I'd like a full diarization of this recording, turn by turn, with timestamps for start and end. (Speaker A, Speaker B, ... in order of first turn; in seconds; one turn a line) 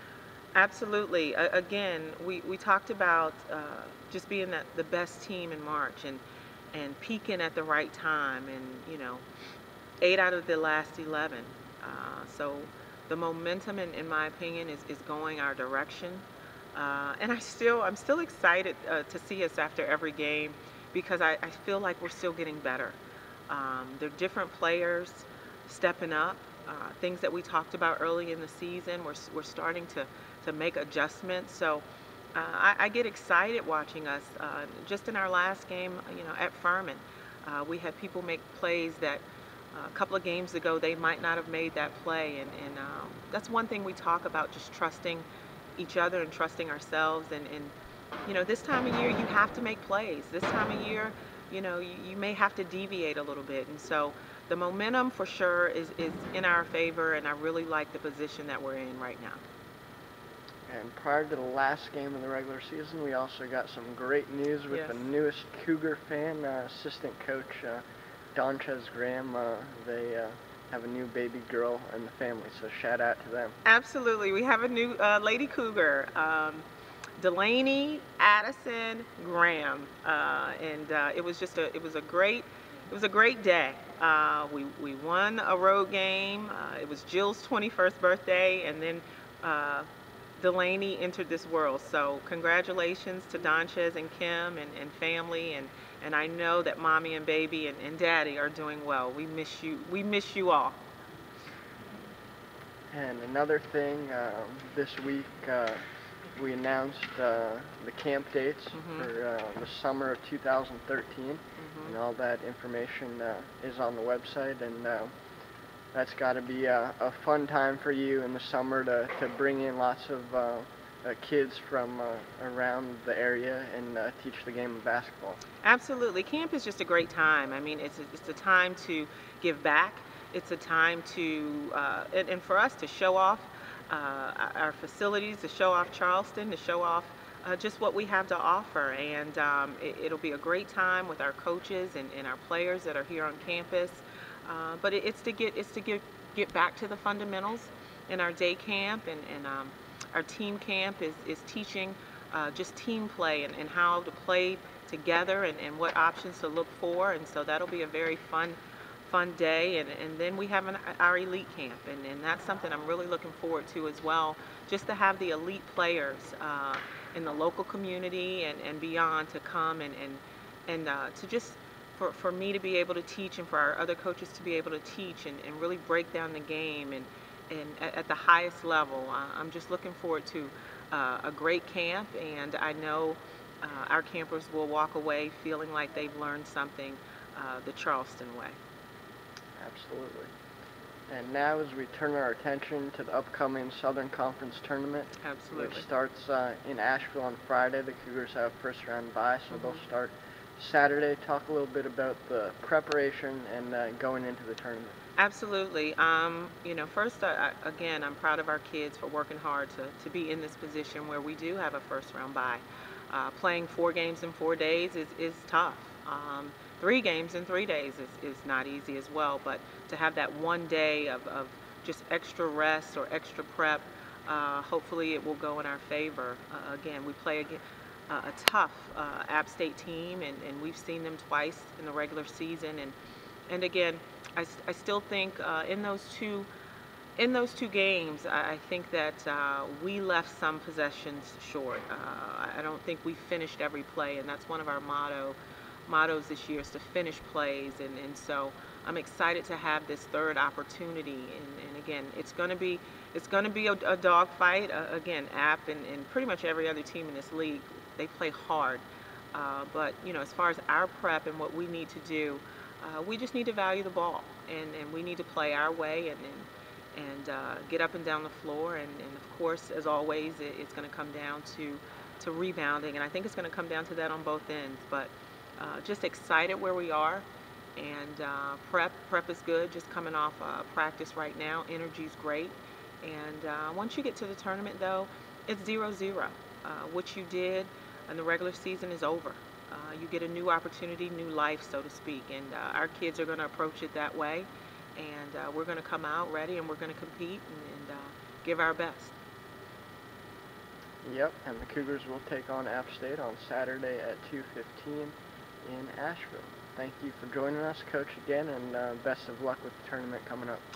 Speaker A: 0.5-6.2
Speaker A: 6.7-9.2
Speaker A: 10.0-23.0
Speaker A: 23.5-31.8
Speaker A: 32.3-45.2
Speaker A: 45.8-47.7
Speaker A: 48.2-59.4
Speaker B: 60.7-67.8
Speaker A: 64.7-65.0
Speaker B: 68.3-73.5
Speaker A: 73.6-76.6
Speaker A: 77.2-100.8
Speaker B: 102.9-105.8
Speaker B: 106.3-115.1
Speaker A: 108.7-109.1
Speaker A: 111.6-112.0
Speaker B: 115.9-125.4
Speaker A: 125.6-188.6
Speaker B: 189.6-190.3
Speaker B: 191.1-204.9
Speaker A: 195.2-195.8
Speaker A: 199.5-199.8
Speaker A: 205.2-232.9
Speaker A: 233.5-236.5
Speaker A: 237.2-277.2
Speaker A: 277.8-299.1
Speaker B: 301.0-310.6